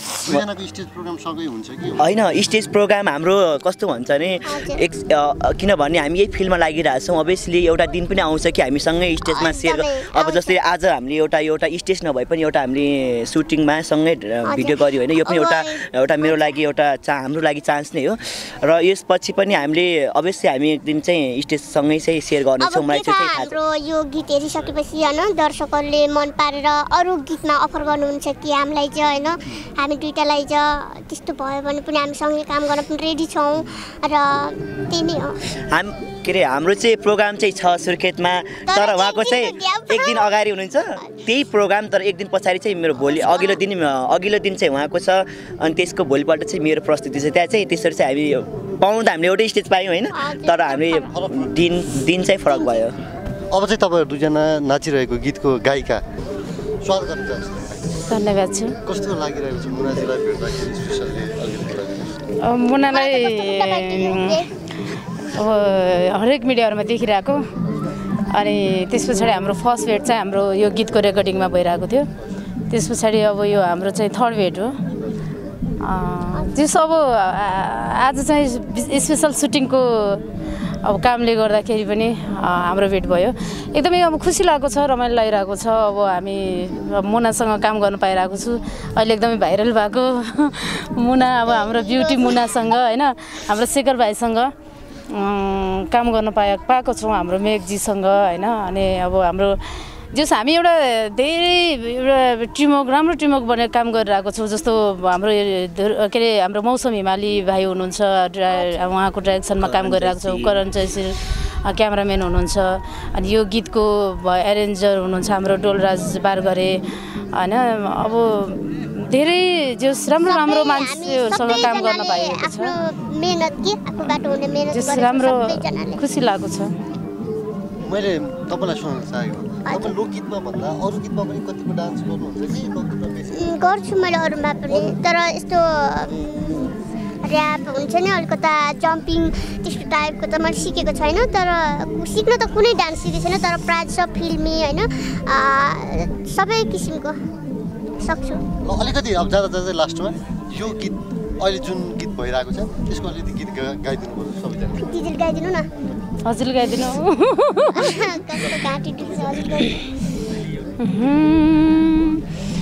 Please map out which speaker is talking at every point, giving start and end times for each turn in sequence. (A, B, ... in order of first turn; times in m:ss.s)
0:00.1-0:02.2 A
0:02.0-0:23.6 B
0:04.4-0:04.8 C
0:09.3-0:10.6 C
0:14.4-0:16.6 C
0:22.6-0:35.4 C
0:35.6-0:53.0 B
0:38.7-0:40.4 C
0:43.0-0:43.6 C
0:50.1-0:51.1 C
0:51.1-0:51.6 A
0:52.5-0:52.9 C
0:53.5-0:56.0 A
0:56.8-0:58.0 A
0:58.1-0:58.7 D
0:58.8-1:02.1 A
1:02.4-1:04.4 D
1:02.9-1:04.5 C
1:05.3-1:07.4 D
1:08.3-1:12.1 D
1:12.7-1:14.8 D
1:15.8-1:20.2 D
1:20.8-1:34.5 D
1:31.5-1:32.7 C
1:35.1-1:56.8 D
1:49.6-1:50.6 B
1:57.3-2:02.7 D
2:00.2-2:06.0 C
2:04.7-2:06.7 D
2:07.8-2:13.6 A
2:09.7-2:10.0 C
2:13.3-2:27.2 C
2:28.0-2:28.4 C
2:28.6-2:34.9 A
2:34.8-2:35.7 C
2:36.3-2:38.0 D
2:37.7-2:39.8 C
2:40.8-2:42.2 D